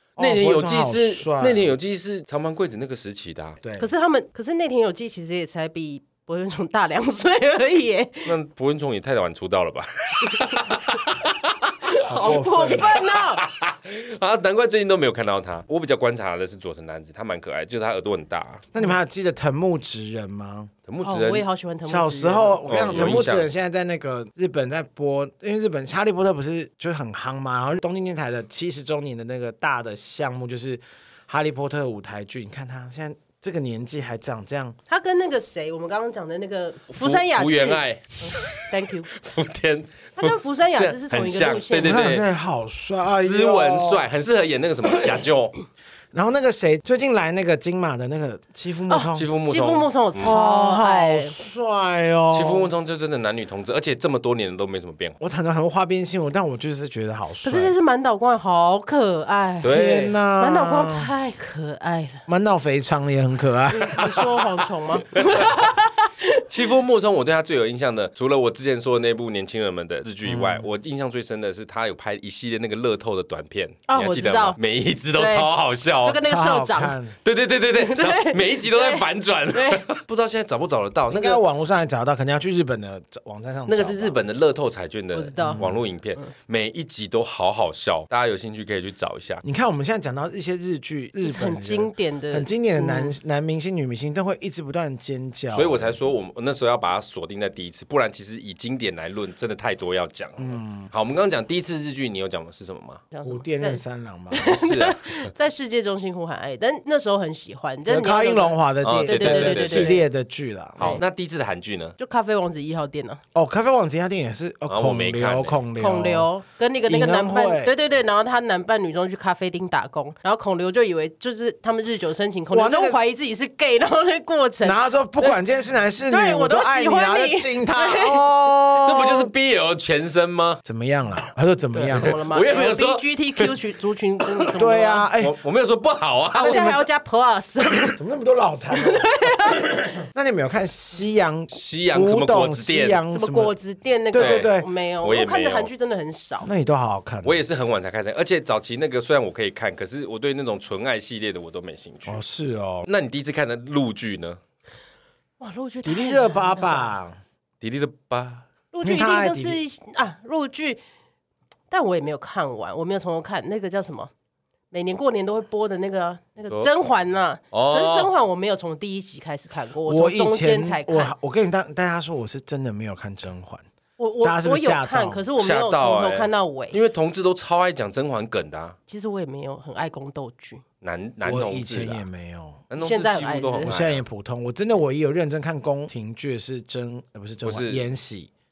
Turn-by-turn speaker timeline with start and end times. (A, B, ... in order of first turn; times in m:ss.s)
0:00.2-0:01.7 A
0:00.2-0:03.6 B
0:03.8-0:08.3 C
0:08.2-0:11.7 B
0:11.9-0:13.5 C
0:12.0-0:13.0 A
0:13.0-0:18.6 B
0:18.7-0:20.7 A
0:20.9-0:21.4 B
0:21.0-0:23.2 C
0:21.8-0:34.8 A
0:22.6-0:23.5 B
0:34.9-0:39.1 C
0:36.9-0:42.2 B
0:40.2-0:42.1 C
0:41.8-0:44.0 A
0:43.0-0:45.5 B
0:46.1-0:49.3 A
0:48.9-0:51.4 C
0:49.1-0:50.3 B
0:50.2-0:52.7 A
0:52.3-0:55.2 B
0:55.2-0:57.7 A
0:57.4-0:59.8 C
0:59.6-1:00.2 B
0:59.6-1:01.1 A
1:00.4-1:02.2 C
1:02.3-1:04.5 A
1:03.7-1:06.4 C
1:05.1-1:05.7 B
1:06.5-1:16.2 B
1:10.2-1:10.7 A
1:13.9-1:14.6 C
1:15.1-1:17.0 C
1:16.2-1:17.2 A
1:17.2-1:21.4 B
1:17.7-1:19.8 C
1:21.1-1:24.2 A
1:23.7-1:29.4 B
1:25.1-1:26.3 C
1:25.4-1:25.7 A
1:29.4-1:36.0 A
1:31.2-1:33.2 C
1:35.5-1:43.0 B
1:40.4-1:40.9 A
1:43.1-1:50.1 C
1:43.2-1:44.4 A
1:44.4-1:45.2 B
1:47.8-1:51.0 A
1:48.8-1:50.0 B
1:50.8-1:51.9 B
1:52.0-1:53.2 C
1:53.3-1:56.3 A
1:54.7-1:55.6 B
1:55.8-2:05.4 C
1:56.9-1:57.7 A
2:02.5-2:03.0 A
2:04.6-2:09.3 A
2:06.1-2:08.2 C
2:08.8-2:10.6 B
2:10.6-2:12.2 A
2:11.7-2:15.1 C
2:11.9-2:13.5 B
2:14.2-2:14.5 B
2:14.6-2:15.4 A
2:15.2-2:16.7 B
2:16.3-2:18.0 C
2:16.4-2:16.9 A
2:17.8-2:19.1 A
2:18.7-2:19.7 C
2:20.1-2:23.5 A
2:21.5-2:23.0 B
2:23.1-2:26.5 C
2:24.1-2:24.7 A
2:24.2-2:25.7 B
2:26.4-2:27.4 A
2:27.2-2:32.2 B
2:32.0-2:32.9 A
2:32.8-2:34.4 B
2:35.4-2:37.0 C
2:35.8-2:37.2 A
2:37.6-2:38.4 B
2:38.7-2:40.8 C
2:38.8-2:39.6 A
2:41.7-2:44.1 C
2:44.7-2:51.1 C
2:47.5-2:48.1 B
2:49.8-2:53.6 A
2:54.0-2:56.8 C
2:54.2-2:55.2 A
2:55.4-2:58.8 B
2:58.9-3:00.6 C
3:00.8-3:02.0 B
3:01.2-3:02.6 A
3:02.7-3:04.0 B
3:02.8-3:03.7 C
3:03.6-3:08.3 A
3:07.4-3:07.8 B